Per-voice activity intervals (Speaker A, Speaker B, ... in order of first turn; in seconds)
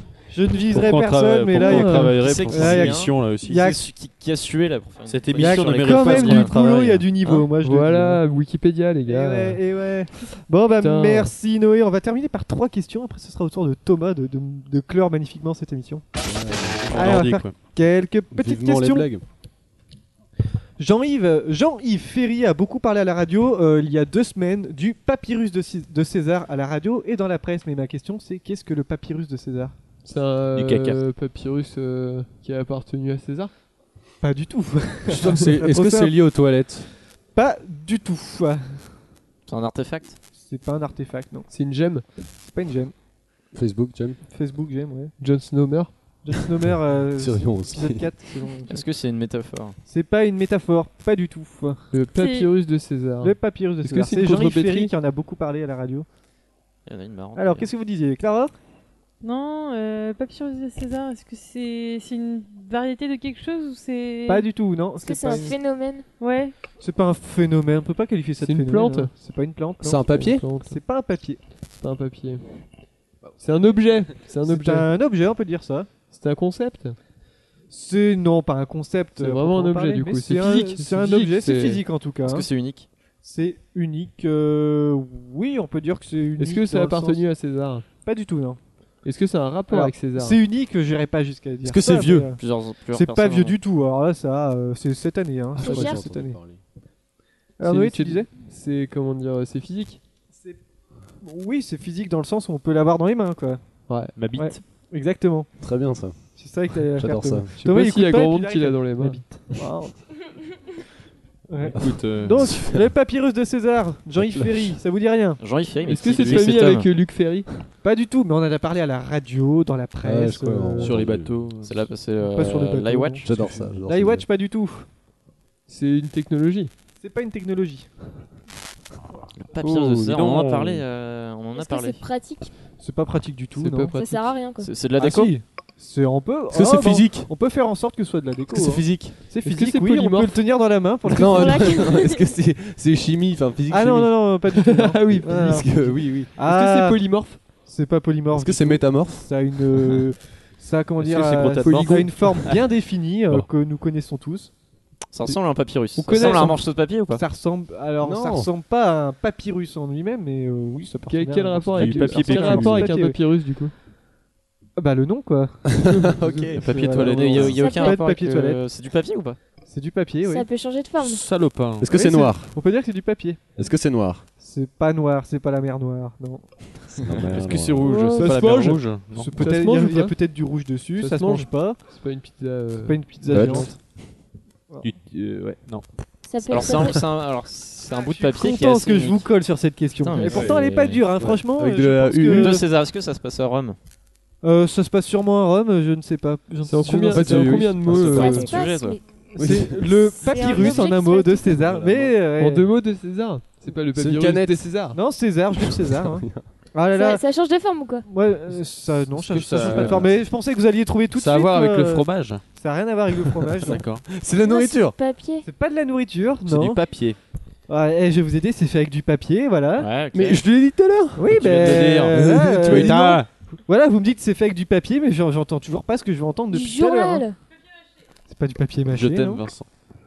Speaker A: 0.3-3.8, 5.4-8.2, 9.1-16.1, 16.9-19.1, 20.8-29.7, 34.2-36.1, 37.4-38.9, 40.4-41.5, 42.4-42.9, 44.3-45.1, 46.2-48.9, 49.9-51.8, 53.2-56.1, 57.4-58.5, 64.3-65.6, 66.8-70.1, 70.6-71.4, 74.5-75.9, 77.7-82.5, 83.2-87.2, 87.9-88.6, 89.7-92.4, 92.9-96.4, 97.6-98.3, 101.2-103.6, 104.3-105.5, 106.4-110.0, 111.5-115.4, 117.8-121.0, 122.4-124.9, 127.0-127.9, 132.8-133.9, 135.0-141.9, 143.7-147.1, 147.6-154.5, 157.1-163.2, 164.8-168.6, 169.7-170.5, 171.8-173.4, 174.4-176.4, 179.1-181.8, 182.8-183.8, 187.9-192.7, 194.4-198.3, 199.3-202.7, 204.9-207.2, 208.1-213.8, 215.4-216.8, 217.7-219.9, 221.2-227.3, 228.3-229.5
Speaker B: 0.7-3.7, 5.1-7.0, 16.9-17.6, 30.6-31.0, 104.2-104.6, 111.8-112.5, 120.8-121.9, 129.6-130.8, 151.0-152.6, 161.8-162.9, 166.6-167.6, 171.0-171.9, 177.3-179.3, 184.8-185.9, 209.2-210.1, 211.1-212.4, 213.6-214.0, 216.4-217.2, 221.3-223.3, 228.9-229.7
Speaker C: 1.6-2.3, 7.6-9.6, 10.7-11.3, 30.0-33.5, 41.5-42.0, 45.2-45.9, 51.9-54.9, 68.4-69.1, 70.0-70.8, 71.8-72.6, 73.4-74.9, 76.1-77.0, 79.2-81.8, 86.4-87.8, 89.0-90.4, 97.6-100.0, 103.9-104.2, 107.6-109.6, 115.8-117.5, 122.4-123.2, 125.7-126.7, 133.5-134.3, 139.4-140.4, 144.5-145.6, 146.4-147.4, 151.6-152.4, 156.0-156.6, 161.1-163.7, 177.9-180.2, 181.0-183.6, 196.6-198.5, 202.4-205.0, 222.7-222.9
Speaker D: 1.6-6.6, 39.5-40.2, 48.7-49.8, 56.9-57.7, 82.2-82.9, 92.4-93.6, 115.4-116.9, 121.6-123.2, 129.4-132.0, 134.6-135.3, 155.1-157.2, 166.2-169.4, 186.5-189.3, 190.0-191.0, 192.3-193.8, 198.4-199.0, 219.8-220.4
Speaker E: 16.2-17.1, 18.3-19.2, 35.1-36.9, 43.5-44.2, 47.2-48.0, 69.8-70.5, 91.6-92.3, 95.6-96.6, 105.6-106.2, 106.9-107.5, 111.8-112.9, 114.2-114.8, 120.0-121.3, 123.2-124.2, 136.5-137.3, 138.5-139.2, 141.1-144.1, 145.1-146.3, 148.3-149.3, 158.0-158.5, 165.7-166.6, 171.8-172.5, 173.6-174.2, 177.0-177.9, 183.3-183.7, 190.2-190.6, 191.2-192.6, 197.1-198.6, 199.4-200.9, 201.5-202.2, 203.9-204.7, 205.6-206.4, 209.5-210.2, 214.1-215.0, 220.1-221.4, 222.1-223.0
Speaker F: 52.1-52.5, 59.2-64.5, 66.2-66.5
Speaker G: 65.0-66.0, 95.6-96.0, 131.6-132.5, 133.9-134.7, 141.2-142.3, 167.6-168.0, 170.2-171.2, 177.8-178.3, 186.3-187.0, 198.1-199.0, 199.9-201.7, 206.9-208.1, 214.4-215.5, 226.5-227.4